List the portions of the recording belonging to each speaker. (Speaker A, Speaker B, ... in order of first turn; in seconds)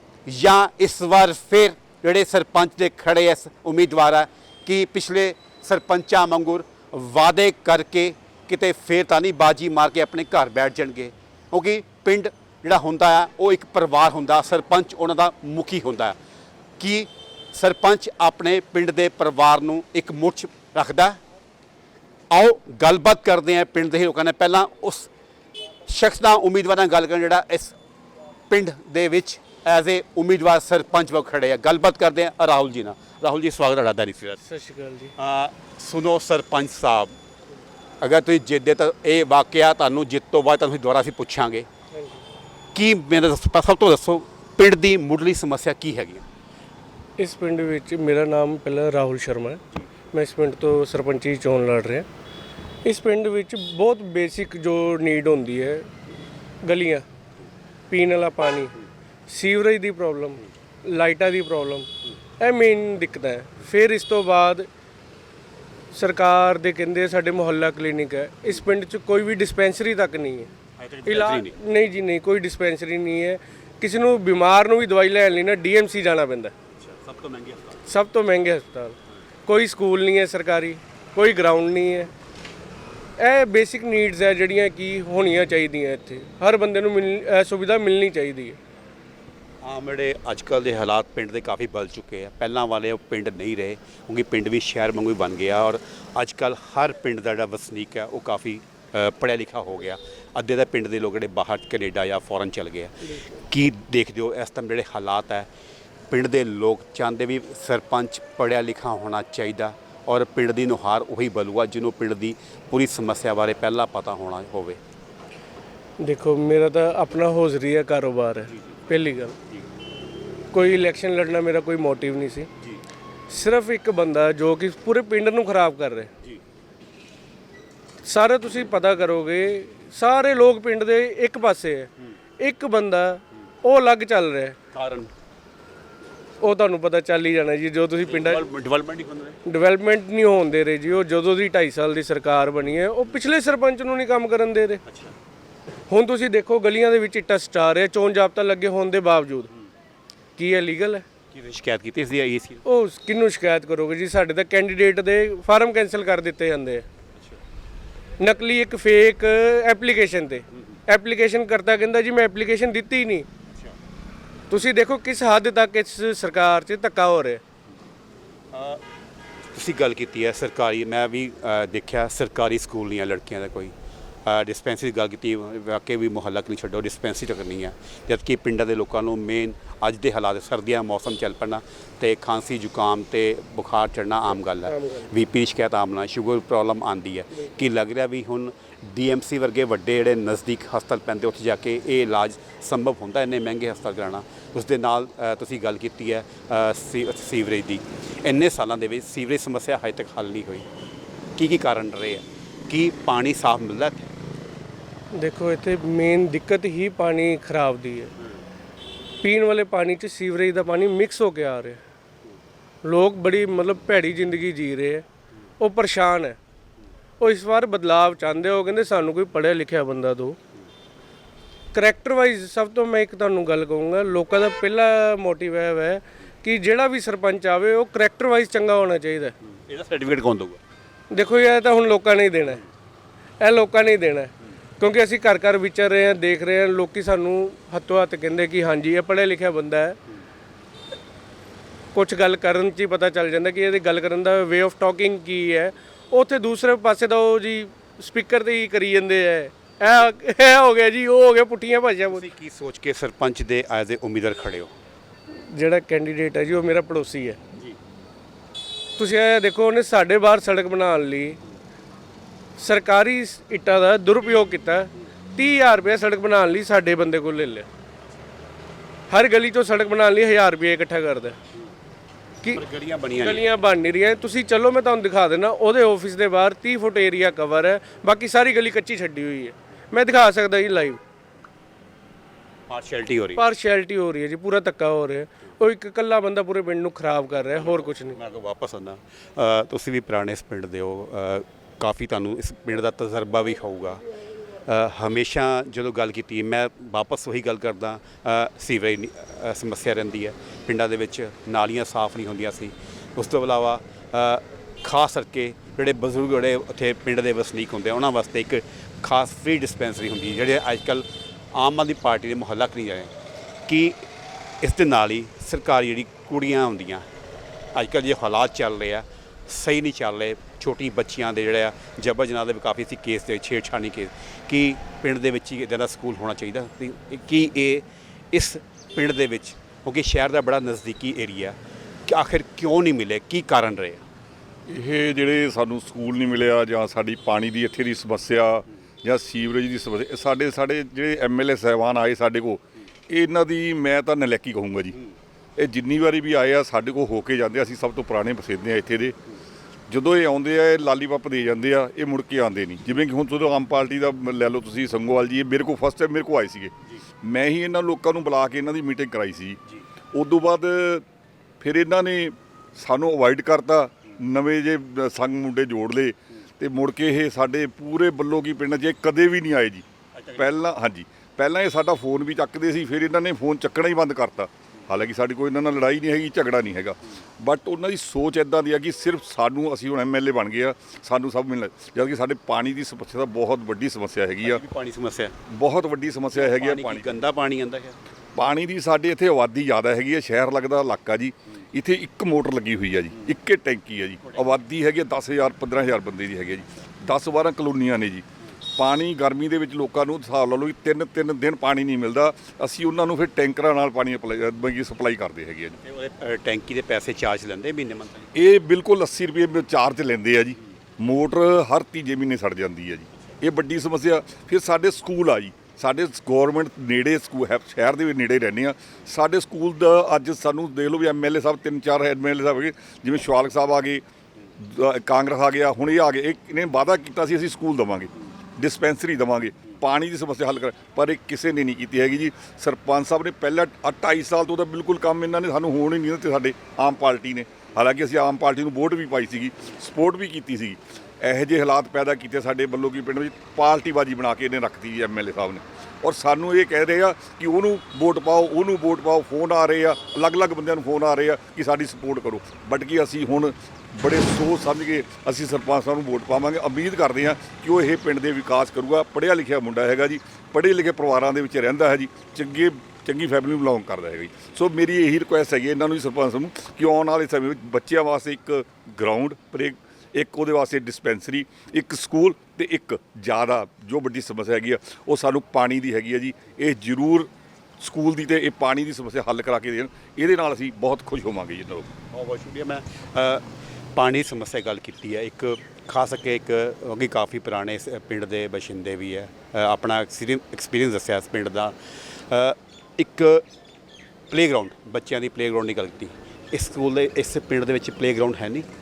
Speaker A: 0.2-16.2, 16.8-21.2, 22.3-25.1, 25.9-27.8, 28.5-34.4, 35.2-37.1, 38.0-41.7, 42.7-46.2, 70.8-71.5, 76.8-77.8, 89.6-105.5, 106.1-114.8, 134.7-135.1, 138.0-139.4, 144.9-145.1, 151.3-152.6, 168.5-168.8, 169.5-173.7, 174.2-200.7, 201.3-204.1, 229.7-230.6, 252.1-254.7, 272.5-273.4, 282.7-283.4, 287.6-294.0, 294.6-313.1, 313.7-314.1, 314.6-317.1, 317.7-334.0, 370.1-370.5, 384.4-385.4, 386.3-387.9, 405.8-408.3, 482.1-491.7, 492.3-493.4, 494.3-498.7
Speaker B: 34.5-35.1, 47.2-49.6, 50.1-52.0, 52.8-55.9, 56.6-57.0, 57.9-58.7, 59.3-61.9, 62.4-64.7, 65.9-70.5, 71.0-76.5, 77.9-79.0, 79.5-82.1, 83.2-88.6, 116.0-119.4, 120.5-122.5, 123.3-126.1, 128.0-131.9, 132.4-134.6, 136.4-138.4, 139.4-144.8, 145.9-149.5, 150.4-151.0, 152.7-156.8, 158.2-163.2, 164.5-167.4, 205.1-208.1, 209.2-211.8, 212.8-215.0, 215.6-216.4, 217.2-220.4, 221.7-229.3, 231.1-232.6, 233.4-240.0, 241.9-252.2, 255.5-257.4, 259.0-261.4, 262.6-267.7, 269.1-271.4, 273.2-281.0, 283.4-288.2
Speaker C: 334.7-345.0, 345.6-349.2, 349.9-359.6, 360.1-361.0, 361.6-384.6, 385.5-387.1, 388.3-398.2, 398.8-405.8, 408.4-424.0, 424.6-481.9